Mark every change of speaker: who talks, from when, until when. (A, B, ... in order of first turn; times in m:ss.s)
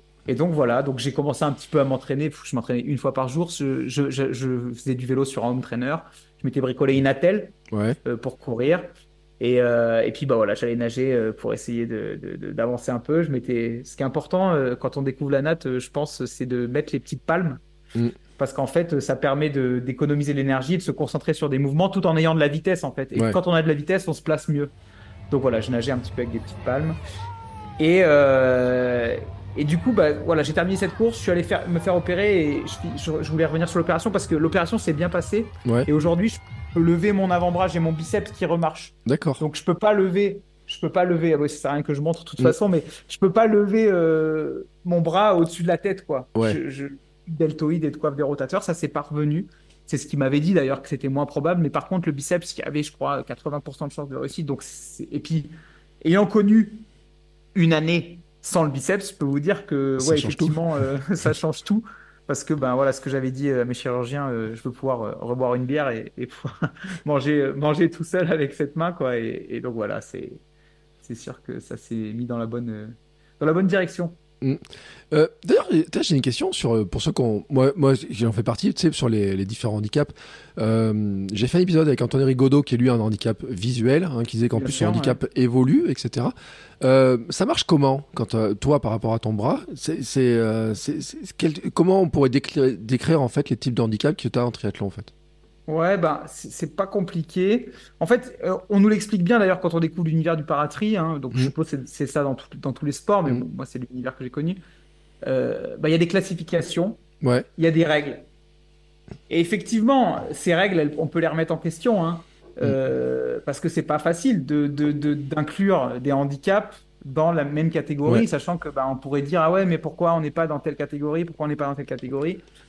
0:00.3-0:08.9 A
0:07.7-0:08.0 B
0:09.4-0:17.6 A
0:18.4-0:24.7 A
0:25.3-0:27.0 A
0:27.8-0:55.5 A
0:39.0-0:39.4 B
0:56.0-0:56.8 A
0:57.5-1:10.4 A
1:00.0-1:00.6 B
1:11.0-1:14.2 A
1:14.4-1:35.1 B
1:24.5-1:25.2 A
1:35.7-1:44.6 A
1:45.2-1:47.0 A
1:47.2-1:47.5 B
1:47.6-1:48.3 A
1:49.3-2:02.4 A